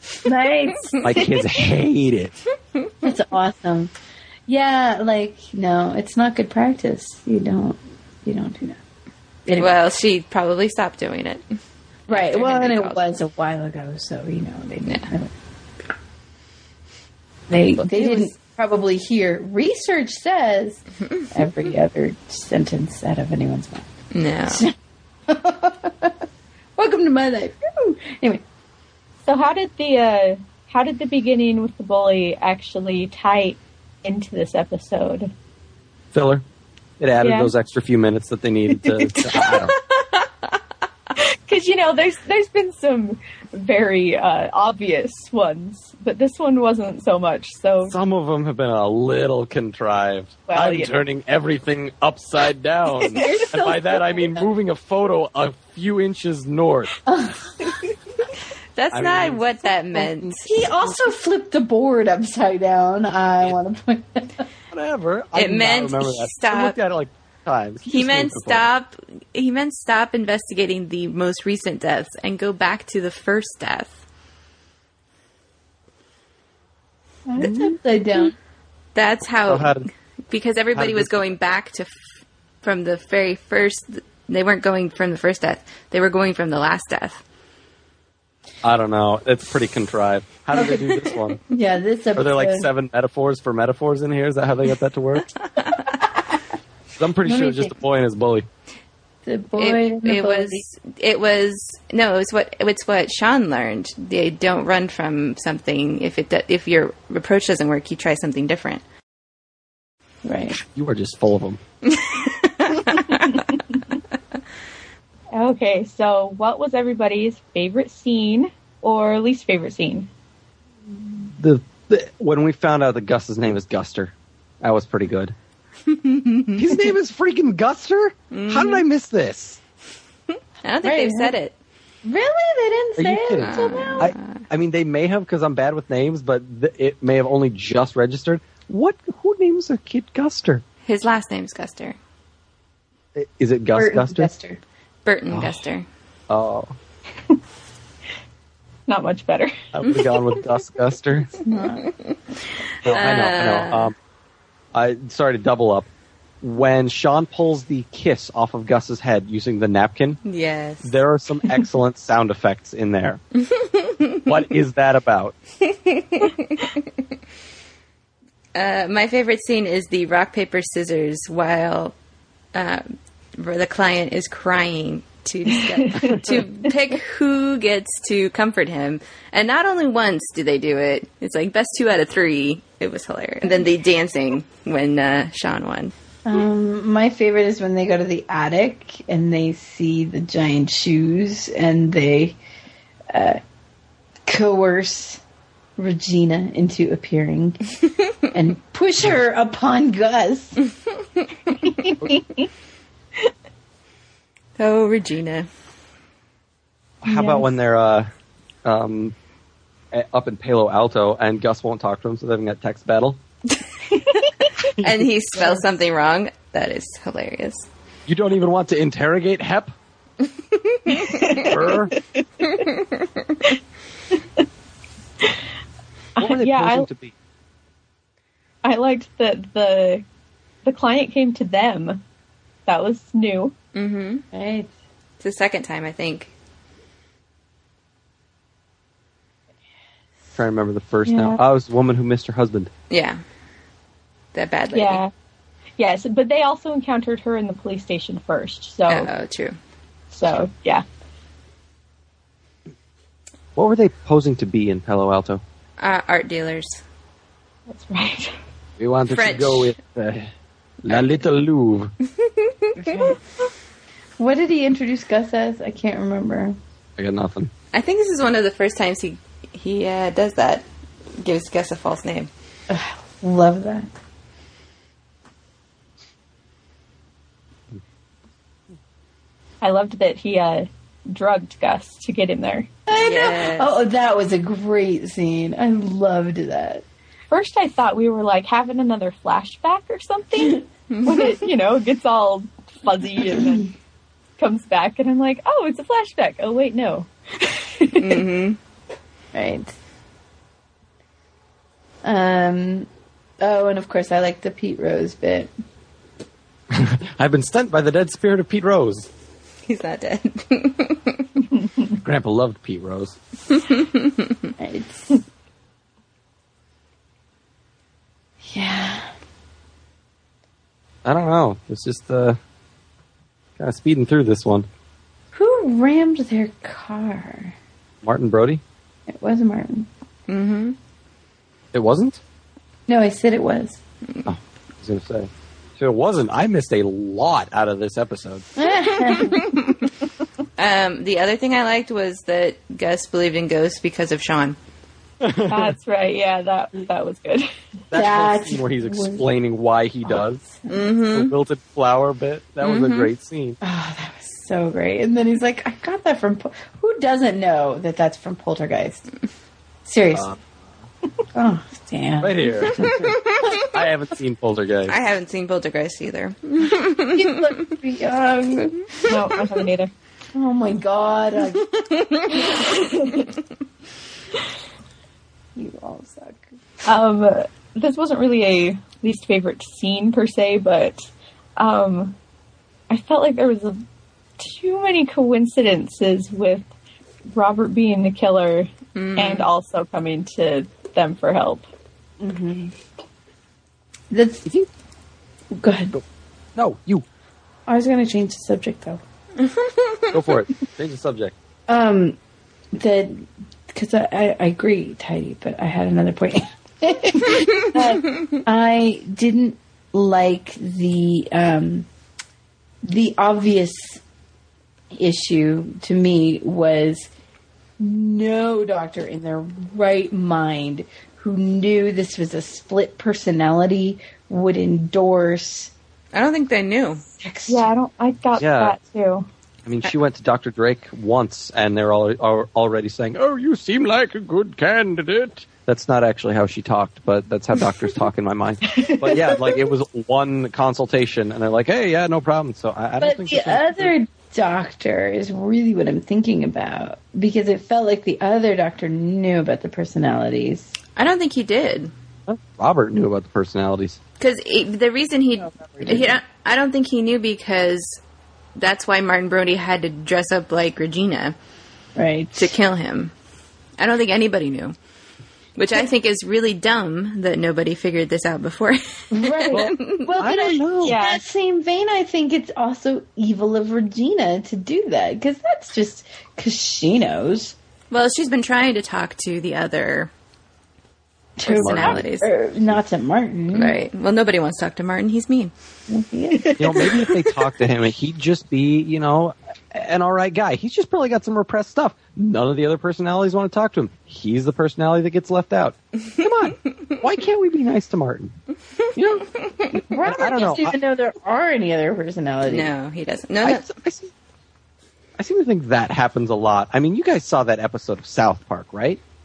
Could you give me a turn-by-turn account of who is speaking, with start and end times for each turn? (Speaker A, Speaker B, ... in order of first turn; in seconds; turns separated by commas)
Speaker A: 0.2-1.3, Speaker B: 1.0-2.4, Speaker A: 3.0-3.9, Speaker A: 4.5-8.8, Speaker A: 9.5-9.7, Speaker C: 9.6-11.5, Speaker A: 12.1-15.3, Speaker C: 12.1-13.1, Speaker A: 17.5-23.9, Speaker C: 17.8-18.3, Speaker C: 24.1-24.6, Speaker A: 24.5-24.7, Speaker A: 25.3-26.2, Speaker A: 26.8-28.4, Speaker D: 29.3-35.3, Speaker B: 36.1-36.4, Speaker B: 37.0-39.8, Speaker D: 37.2-37.5, Speaker D: 41.2-48.0, Speaker B: 47.9-56.9, Speaker D: 50.5-50.9, Speaker A: 53.1-54.4, Speaker D: 53.2-53.8, Speaker A: 57.1-57.8, Speaker C: 58.8-60.5, Speaker B: 58.9-60.9, Speaker A: 60.4-64.4, Speaker B: 64.7-68.7, Speaker C: 65.3-66.8, Speaker C: 67.9-74.0, Speaker A: 77.3-78.3, Speaker C: 77.4-78.3, Speaker C: 79.0-81.9, Speaker B: 79.5-79.9, Speaker B: 80.7-81.1, Speaker C: 82.6-87.2, Speaker B: 88.6-91.4, Speaker C: 90.5-91.2, Speaker A: 90.6-90.8, Speaker A: 91.5-92.7, Speaker B: 92.2-95.3, Speaker B: 97.0-98.5, Speaker A: 97.3-97.7, Speaker A: 99.3-100.6, Speaker C: 99.6-108.8, Speaker A: 110.2-110.6, Speaker B: 110.6-111.6, Speaker C: 111.9-113.3, Speaker D: 115.3-120.1, Speaker B: 121.2-125.3, Speaker C: 125.9-126.6, Speaker B: 126.5-129.6, Speaker C: 128.3-128.8, Speaker C: 130.6-131.5, Speaker A: 130.8-131.3, Speaker A: 132.0-134.1, Speaker B: 133.0-140.6, Speaker C: 133.4-134.4, Speaker C: 140.8-142.0, Speaker B: 143.2-144.3, Speaker A: 143.7-144.6, Speaker C: 145.1-145.8, Speaker B: 145.3-145.6, Speaker B: 146.3-146.7, Speaker D: 148.9-149.6, Speaker B: 149.7-151.3, Speaker A: 151.4-151.9, Speaker B: 152.8-153.9, Speaker C: 152.8-153.9, Speaker B: 154.7-155.9, Speaker B: 156.4-160.2, Speaker C: 160.2-160.9, Speaker B: 160.8-163.2, Speaker C: 163.4-164.2, Speaker B: 164.3-165.3, Speaker C: 165.7-166.7, Speaker C: 168.6-171.9, Speaker C: 172.5-185.9, Speaker D: 175.6-176.4, Speaker A: 186.2-192.4, Speaker A: 193.1-193.4, Speaker A: 194.3-195.2, Speaker A: 195.8-200.6, Speaker D: 201.7-202.4, Speaker C: 204.6-205.5, Speaker B: 207.0-208.1, Speaker D: 207.1-207.4, Speaker B: 208.7-209.1, Speaker B: 209.9-213.2, Speaker B: 214.8-215.6, Speaker C: 214.8-217.7, Speaker B: 218.1-219.7, Speaker C: 220.7-221.0, Speaker D: 220.9-221.5, Speaker B: 221.4-221.9, Speaker D: 222.2-222.6, Speaker D: 226.2-226.9, Speaker B: 226.2-227.1, Speaker D: 228.6-230.0, Speaker D: 230.6-232.0, Speaker D: 232.7-233.5, Speaker C: 233.8-234.2, Speaker A: 234.3-234.7, Speaker C: 235.2-236.3, Speaker B: 240.4-242.7, Speaker D: 241.1-241.4, Speaker C: 242.9-243.2, Speaker C: 244.3-245.0, Speaker D: 244.7-245.1, Speaker D: 245.8-249.1, Speaker C: 248.9-249.6, Speaker D: 250.1-250.8, Speaker B: 253.6-255.4, Speaker C: 255.8-256.8, Speaker D: 257.7-258.4, Speaker B: 258.8-260.3, Speaker C: 259.1-259.8, Speaker B: 260.9-261.9, Speaker C: 260.9-261.2, Speaker C: 262.2-263.1, Speaker A: 262.8-263.2, Speaker A: 264.2-266.6, Speaker B: 267.0-267.5, Speaker C: 267.7-270.7, Speaker C: 271.2-272.3, Speaker A: 272.7-273.9, Speaker D: 279.6-282.7, Speaker A: 282.9-286.8, Speaker C: 283.0-283.7, Speaker D: 287.3-293.7, Speaker C: 290.9-291.4, Speaker D: 294.4-298.2, Speaker C: 297.9-298.6, Speaker A: 299.3-299.7, Speaker A: 302.0-302.9, Speaker A: 303.4-305.5, Speaker B: 306.7-309.1, Speaker C: 309.7-311.3, Speaker B: 312.0-313.2, Speaker C: 313.5-314.5, Speaker A: 314.6-315.2, Speaker A: 318.4-319.1, Speaker B: 321.1-322.4, Speaker B: 323.6-324.7, Speaker A: 325.3-327.5, Speaker B: 328.0-328.6, Speaker A: 329.1-329.9, Speaker C: 330.3-330.8, Speaker B: 331.7-332.2, Speaker A: 332.9-333.8, Speaker B: 334.3-338.5, Speaker A: 338.6-339.7, Speaker C: 339.0-339.6, Speaker C: 340.6-344.6, Speaker B: 345.2-345.8, Speaker D: 345.5-347.5, Speaker B: 347.9-350.6, Speaker A: 347.9-349.2, Speaker C: 350.7-351.3, Speaker B: 351.1-353.6, Speaker C: 352.6-353.1, Speaker A: 353.6-359.1, Speaker A: 359.9-360.3, Speaker B: 360.1-360.4, Speaker A: 361.4-363.0, Speaker B: 362.2-365.0, Speaker C: 362.8-363.6, Speaker C: 364.9-367.5, Speaker A: 367.1-368.9, Speaker D: 369.1-369.9, Speaker A: 370.3-372.8, Speaker D: 372.4-373.3, Speaker A: 375.6-376.4, Speaker D: 376.9-382.2, Speaker D: 382.9-383.8, Speaker D: 384.4-386.7, Speaker D: 387.3-391.6, Speaker C: 388.9-389.5, Speaker A: 392.2-392.7, Speaker A: 394.1-394.5, Speaker A: 395.6-395.9, Speaker B: 396.6-397.1, Speaker A: 397.7-399.0, Speaker C: 399.4-400.2, Speaker B: 400.1-401.3, Speaker A: 401.7-402.2, Speaker A: 402.7-411.9, Speaker A: 412.9-414.0, Speaker A: 414.9-417.1, Speaker A: 417.8-425.7, Speaker C: 426.1-427.0, Speaker A: 427.2-427.7, Speaker D: 427.5-429.3, Speaker B: 428.4-428.8, Speaker B: 429.6-443.9, Speaker D: 438.7-439.6, Speaker A: 443.0-450.7, Speaker C: 451.0-451.9, Speaker B: 452.3-454.0, Speaker C: 454.2-458.0, Speaker A: 455.4-456.2, Speaker C: 458.6-461.4, Speaker A: 462.0-462.6, Speaker C: 462.4-463.1, Speaker C: 463.8-464.8, Speaker C: 465.6-470.1, Speaker A: 469.1-477.6, Speaker B: 469.5-471.0, Speaker D: 470.8-471.2, Speaker C: 477.9-480.1, Speaker A: 481.4-483.8, Speaker C: 481.4-482.3, Speaker B: 481.6-482.0, Speaker C: 483.5-485.5, Speaker A: 485.9-486.9, Speaker D: 486.3-487.4, Speaker B: 486.6-498.3, Speaker B: 498.9-500.8, Speaker C: 499.6-500.1, Speaker A: 499.9-502.7, Speaker C: 502.4-503.7, Speaker B: 503.4-504.1, Speaker B: 505.2-509.0